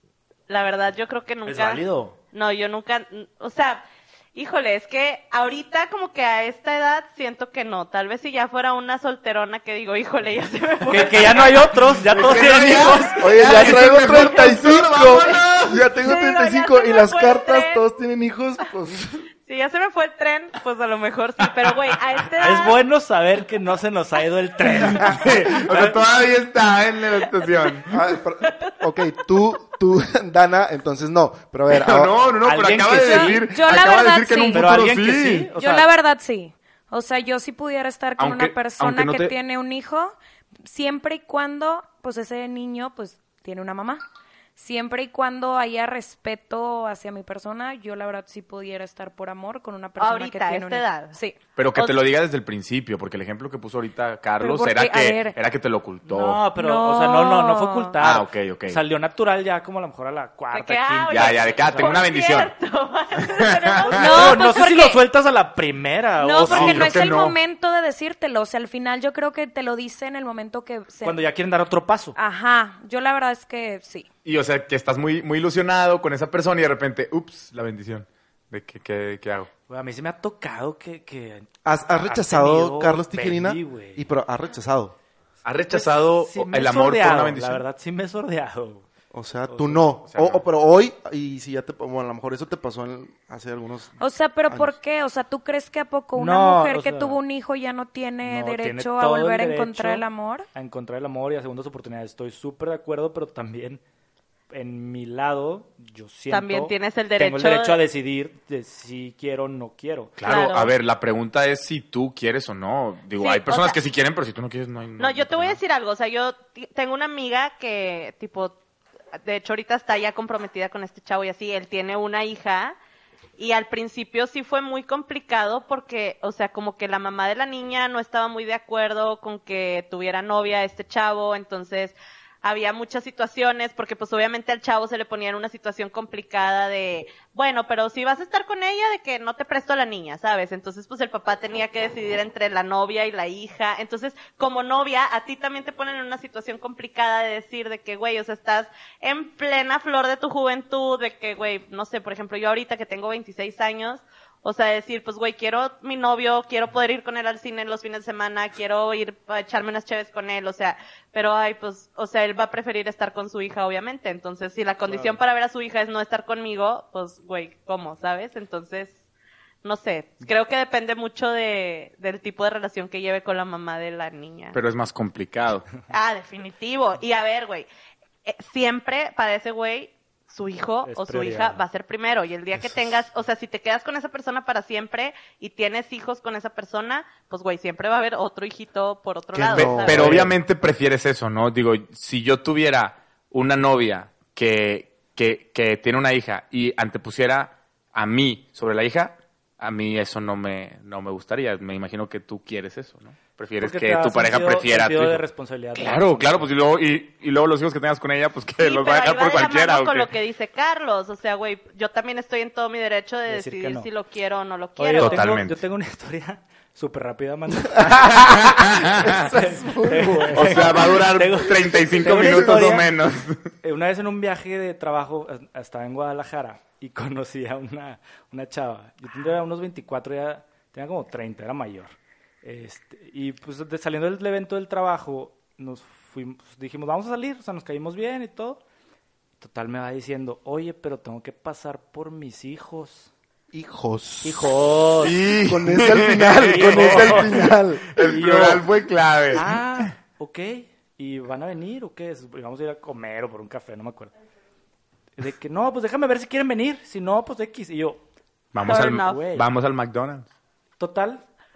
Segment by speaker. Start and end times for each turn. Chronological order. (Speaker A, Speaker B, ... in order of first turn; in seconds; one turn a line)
Speaker A: 0.5-12.0
Speaker B: 1.4-2.2
Speaker B: 10.9-13.8
Speaker C: 12.1-15.8
Speaker D: 13.1-19.2
Speaker A: 14.1-14.6
Speaker A: 16.0-17.8
Speaker A: 19.4-22.8
Speaker B: 22.4-26.0
Speaker C: 25.0-27.9
Speaker D: 27.8-32.2
Speaker C: 31.7-35.5
Speaker B: 32.4-33.5
Speaker E: 33.0-34.8
Speaker B: 34.5-35.9
Speaker E: 35.5-44.0
Speaker C: 38.2-39.3
Speaker E: 44.5-51.4
Speaker A: 50.0-51.1
Speaker C: 51.5-56.4
Speaker E: 54.4-55.4
Speaker B: 56.0-62.0
Speaker E: 56.5-57.9
Speaker C: 58.0-58.8
Speaker A: 60.5-64.4
Speaker C: 61.1-62.5
Speaker C: 63.4-63.8
Speaker B: 63.8-67.1
Speaker E: 64.0-65.0
Speaker E: 66.2-71.2
Speaker C: 66.5-67.4
Speaker B: 71.0-72.1
Speaker E: 72.1-74.1
Speaker C: 74.2-79.5
Speaker B: 79.7-81.5
Speaker D: 81.6-85.0
Speaker B: 82.0-84.0
Speaker C: 85.4-87.6
Speaker B: 85.7-88.9
Speaker D: 89.1-94.8
Speaker B: 89.5-89.9
Speaker C: 90.0-90.4
Speaker E: 94.0-100.5
Speaker B: 96.1-97.2
Speaker B: 98.2-103.8
Speaker B: 104.5-110.2
Speaker A: 106.3-107.8
Speaker C: 110.2-115.6
Speaker A: 110.2-110.7
Speaker A: 113.2-113.8
Speaker A: 115.0-118.5
Speaker A: 119.2-122.8
Speaker A: 123.4-169.0
Speaker B: 164.9-165.2
Speaker A: 169.6-174.6
Speaker C: 174.5-175.7
Speaker A: 175.9-177.7
Speaker A: 178.2-190.2
Speaker B: 180.8-181.6
Speaker D: 189.3-190.4
Speaker C: 189.5-205.2
Speaker B: 203.6-206.5
Speaker C: 205.7-210.1
Speaker A: 208.6-215.4
Speaker B: 213.3-213.9
Speaker B: 214.8-218.3
Speaker C: 214.9-215.6
Speaker D: 217.8-221.0
Speaker C: 217.9-219.3
Speaker B: 219.1-222.9
Speaker C: 220.3-223.5
Speaker D: 222.2-222.5
Speaker B: 223.6-238.6
Speaker B: 239.4-243.1
Speaker D: 243.5-244.5
Speaker B: 244.2-245.2
Speaker C: 245.0-249.9
Speaker D: 245.4-248.0
Speaker B: 246.4-248.8
Speaker B: 249.3-254.1
Speaker B: 255.2-258.0
Speaker C: 258.5-260.3
Speaker B: 258.6-259.5
Speaker A: 258.6-259.2
Speaker B: 260.8-261.2